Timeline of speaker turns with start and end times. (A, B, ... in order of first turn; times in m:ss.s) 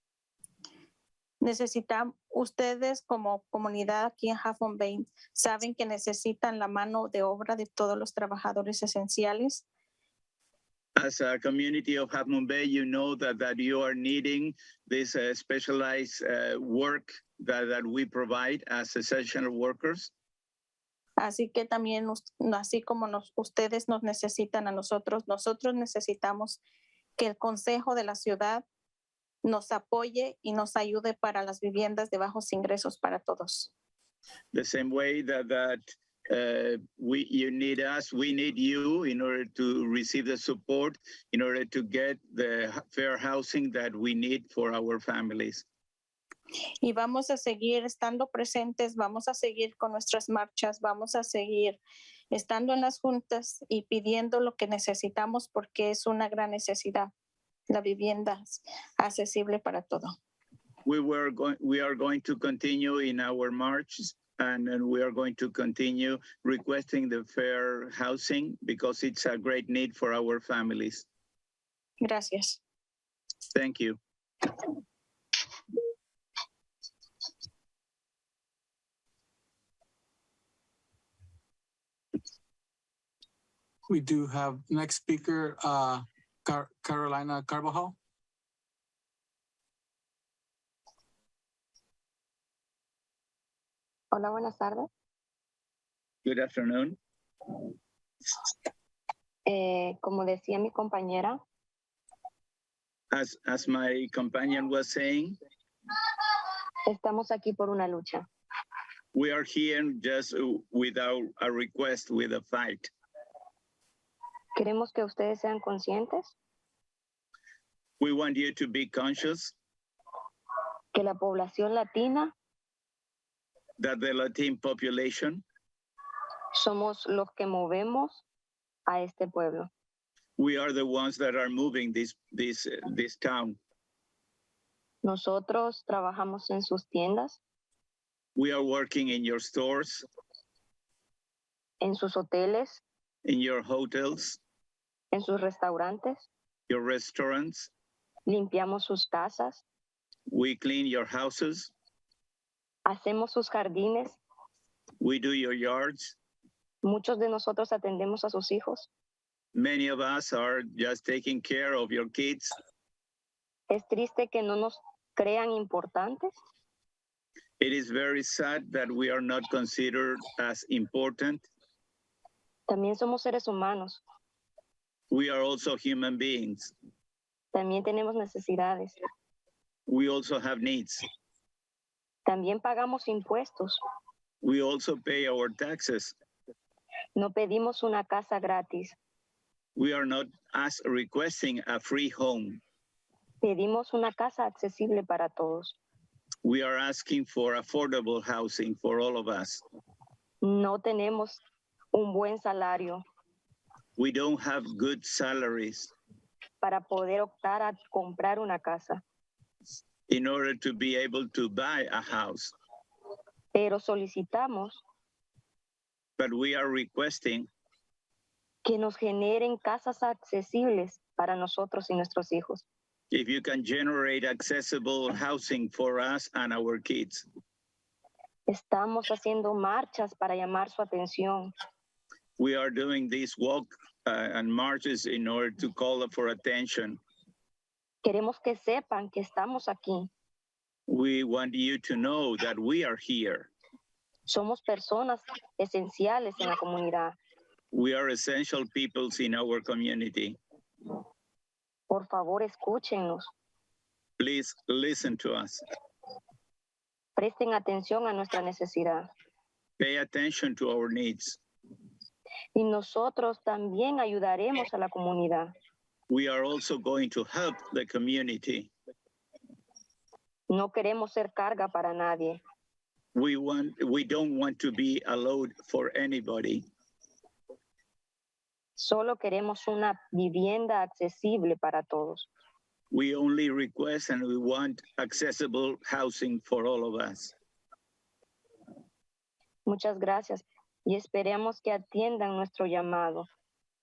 0:01.4-0:09.6 A
0:11.0-0:20.1 B
0:21.2-0:26.6 A
0:27.2-0:28.6 A
0:29.4-0:33.7 A
0:34.5-0:45.6 B
0:46.8-0:51.8 A
0:52.3-0:57.1 A
0:57.7-1:00.1 A
1:00.8-1:11.0 B
1:12.0-1:12.6 A
1:13.5-1:14.0 B
1:23.9-1:27.9 C
1:34.1-1:34.9 D
1:36.2-1:37.0 B
1:39.4-1:41.4 D
1:43.1-1:45.4 B
1:46.8-1:48.3 D
1:49.1-1:52.9 B
1:54.6-1:56.3 D
1:58.0-1:59.5 B
2:00.9-2:02.3 D
2:03.8-2:05.4 B
2:06.5-2:08.2 D
2:08.9-2:09.7 D
2:10.4-2:13.6 B
2:15.0-2:17.4 D
2:18.4-2:20.0 B
2:21.8-2:22.8 D
2:23.2-2:24.4 B
2:25.1-2:26.2 D
2:26.7-2:27.7 B
2:28.3-2:29.6 D
2:30.3-2:31.7 B
2:32.8-2:34.2 D
2:35.0-2:36.2 B
2:36.8-2:38.9 D
2:39.5-2:42.5 B
2:43.7-2:46.3 D
2:47.6-2:51.4 B
2:52.7-2:54.0 D
2:55.1-2:56.7 B
2:57.5-2:59.0 D
2:59.9-3:01.0 B
3:02.2-3:03.8 D
3:04.4-3:06.1 B
3:07.1-3:09.0 D
3:09.8-3:12.6 B
3:13.4-3:15.8 D
3:16.4-3:19.6 B
3:20.4-3:21.4 D
3:21.9-3:23.0 D
3:24.0-3:25.9 B
3:26.6-3:29.0 D
3:30.1-3:32.5 B
3:33.5-3:34.8 D
3:36.2-3:37.5 B
3:38.6-3:42.6 D
3:43.1-3:47.2 B
3:48.5-3:51.5 D
3:52.4-3:57.0 B
3:58.0-4:00.1 D
4:00.9-4:03.5 B
4:04.3-4:07.1 D
4:07.7-4:10.4 B
4:11.9-4:13.3 D
4:14.2-4:15.6 B
4:17.2-4:19.0 D
4:19.8-4:21.4 B
4:22.5-4:25.5 D
4:26.1-4:28.7 B
4:30.5-4:32.4 D
4:33.1-4:36.6 B
4:38.8-4:42.3 D
4:42.9-4:47.3 B
4:49.6-4:53.3 D